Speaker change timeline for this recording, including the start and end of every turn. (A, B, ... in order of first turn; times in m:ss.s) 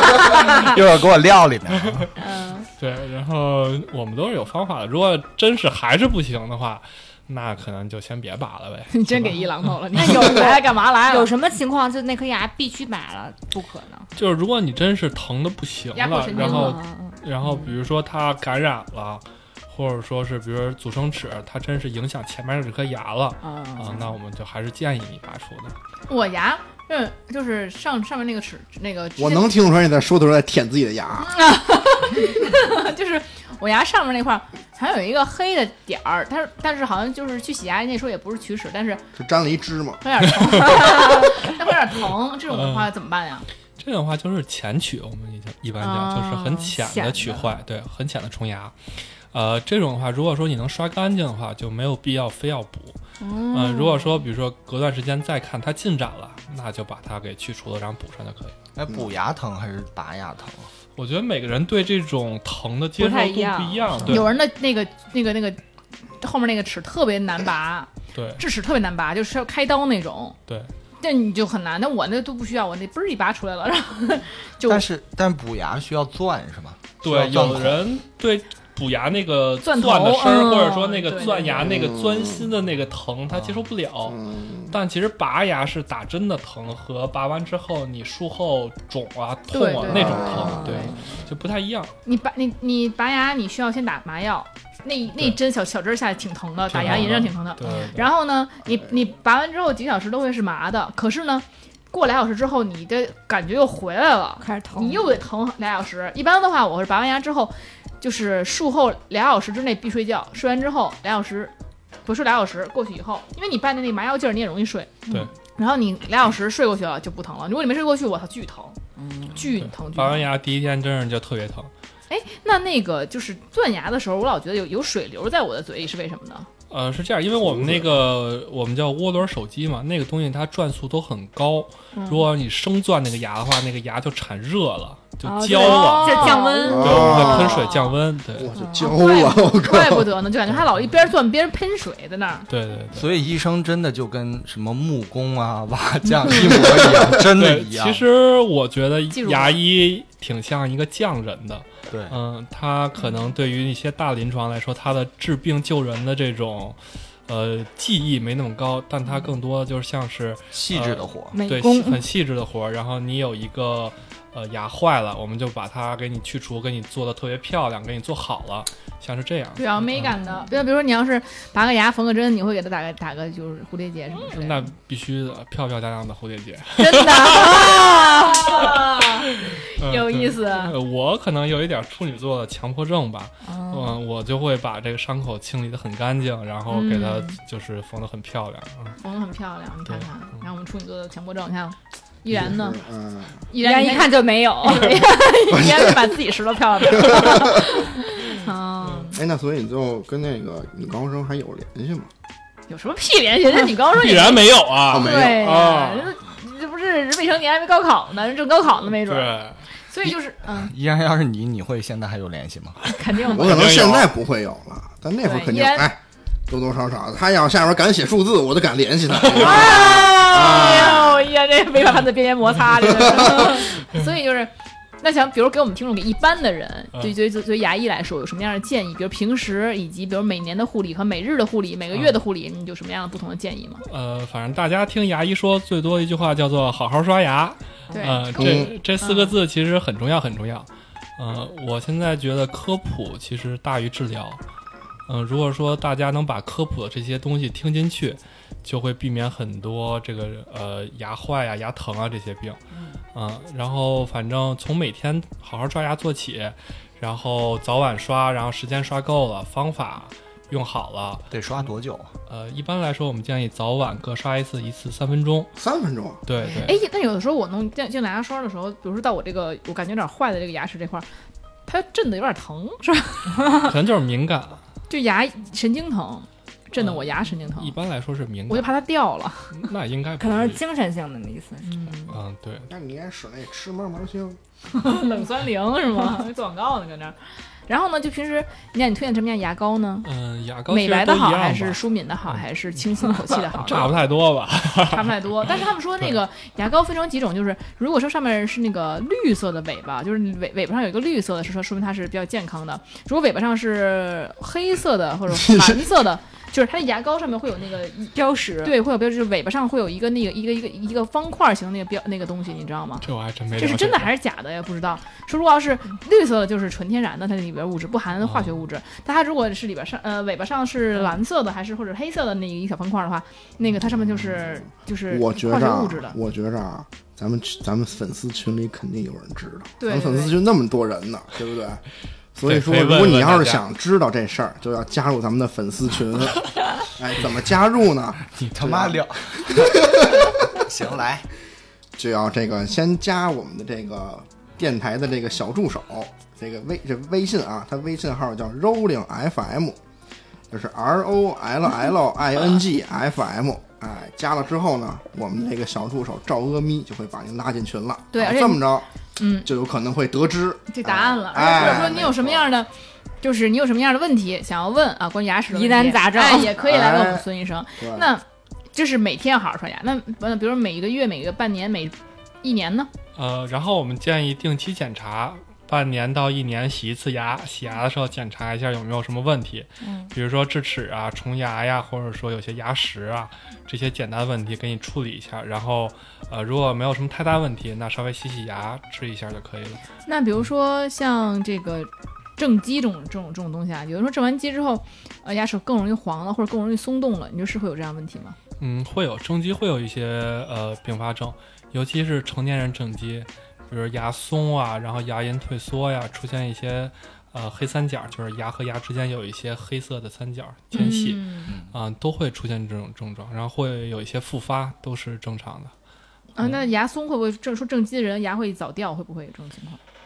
0:00.3-0:00.7 A
0:00.5-0:02.1 B
0:01.8-0:02.1 C
0:02.2-0:02.6 A
0:02.8-0:09.3 C
0:08.9-0:11.3 A
0:10.0-0:14.1 D
0:14.1-0:25.8 C
0:15.9-0:16.8 A
0:16.3-0:17.7 D
0:23.4-0:24.1 D
0:26.1-0:29.5 A
0:29.2-0:31.3 E
0:31.2-0:39.0 A
0:39.1-0:40.0 E
0:40.0-0:43.4 A
0:42.5-0:42.9 C
0:43.8-0:53.0 C
0:45.8-0:47.2 A
0:46.8-0:47.4 D
0:53.3-0:54.0 D
0:53.5-0:58.5 C
0:58.8-1:00.7 B
1:01.0-1:04.3 C
1:03.0-1:04.2 D
1:04.0-1:05.6 A
1:06.2-1:10.4 A
1:08.1-1:08.4 C
1:11.0-1:14.8 A
1:14.7-1:17.8 B
1:17.0-1:31.9 C
1:19.6-1:21.7 A
1:21.6-1:22.4 E
1:24.1-1:24.7 E
1:29.5-1:31.0 A
1:29.9-1:30.7 E
1:30.3-1:30.9 D
1:32.0-1:51.5 A
1:36.7-1:38.1 C
1:44.4-1:45.1 D
1:52.0-2:00.3 A
1:59.0-1:59.3 D
1:59.6-2:01.7 C
2:02.1-2:06.5 A
2:06.7-2:18.5 C
2:07.4-2:07.9 E
2:12.0-2:12.3 A
2:15.2-2:17.2 D
2:15.5-2:17.9 A
2:16.7-2:17.8 E
2:18.4-2:20.1 E
2:18.6-2:18.9 D
2:18.6-2:22.5 A
2:22.5-2:23.1 C
2:22.9-2:28.0 B
2:26.6-2:50.0 C
2:29.1-2:29.6 A
2:31.9-2:32.2 B
2:40.5-2:41.3 B
2:41.3-2:42.0 D
2:49.6-2:54.7 A
2:54.2-2:57.7 C
2:56.8-3:00.8 A
2:57.3-2:58.7 D
2:59.5-3:09.0 C
3:03.5-3:03.9 D
3:06.7-3:07.3 A
3:09.0-3:12.8 A
3:12.3-3:13.4 E
3:13.5-3:19.2 A
3:13.6-3:15.0 D
3:15.5-3:16.1 E
3:17.0-3:17.6 E
3:18.2-3:18.5 D
3:19.1-3:22.1 E
3:22.7-3:30.7 A
3:23.9-3:26.1 C
3:24.9-3:25.6 E
3:29.0-3:29.6 C
3:30.4-3:32.9 B
3:32.9-3:33.7 A
3:33.3-3:41.2 E
3:33.3-3:34.1 C
3:35.2-3:35.9 A
3:39.3-3:40.0 C
3:39.3-3:53.8 A
3:42.8-3:43.6 E
3:53.8-4:04.4 C
3:57.9-3:58.2 D
3:57.9-3:59.3 A
3:58.4-3:58.7 E
4:05.1-4:12.6 C
4:13.1-4:21.3 C
4:21.3-4:22.1 B
4:22.3-4:25.5 C
4:25.6-4:26.2 E
4:26.2-4:26.8 C
4:26.6-4:31.0 A
4:31.6-4:33.6 A
4:33.5-4:34.6 C
4:34.9-4:37.7 A
4:36.8-4:37.0 C
4:37.5-4:38.8 C
4:38.5-4:39.6 A
4:39.5-4:40.6 C
4:40.2-4:41.9 D
4:41.6-4:42.1 A
4:42.1-4:42.7 C
4:42.7-4:44.4 E
4:44.7-4:47.2 A
4:47.7-4:50.1 A
4:50.0-4:51.8 C
4:50.7-4:54.0 A
4:53.6-4:55.1 C
4:54.8-5:26.2 A
5:05.4-5:05.7 E
5:08.1-5:08.7 D
5:13.0-5:14.1 C
5:18.2-5:18.6 C
5:25.1-5:31.8 E
5:29.8-5:30.4 A
5:32.3-5:40.6 E
5:32.4-5:33.6 C
5:38.4-5:41.3 B
5:42.0-5:49.8 E
5:50.5-5:58.8 E
5:58.1-5:59.5 A
5:59.4-6:02.4 E
6:00.7-6:02.7 A
6:03.2-6:12.9 A
6:05.5-6:06.6 D
6:06.6-6:07.2 E
6:07.8-6:08.0 E
6:13.2-6:29.8 C
6:19.8-6:20.1 D
6:30.1-6:38.4 A
6:38.6-6:55.7 C
6:50.7-6:51.5 D
6:50.8-6:51.1 A
6:56.4-6:59.8 A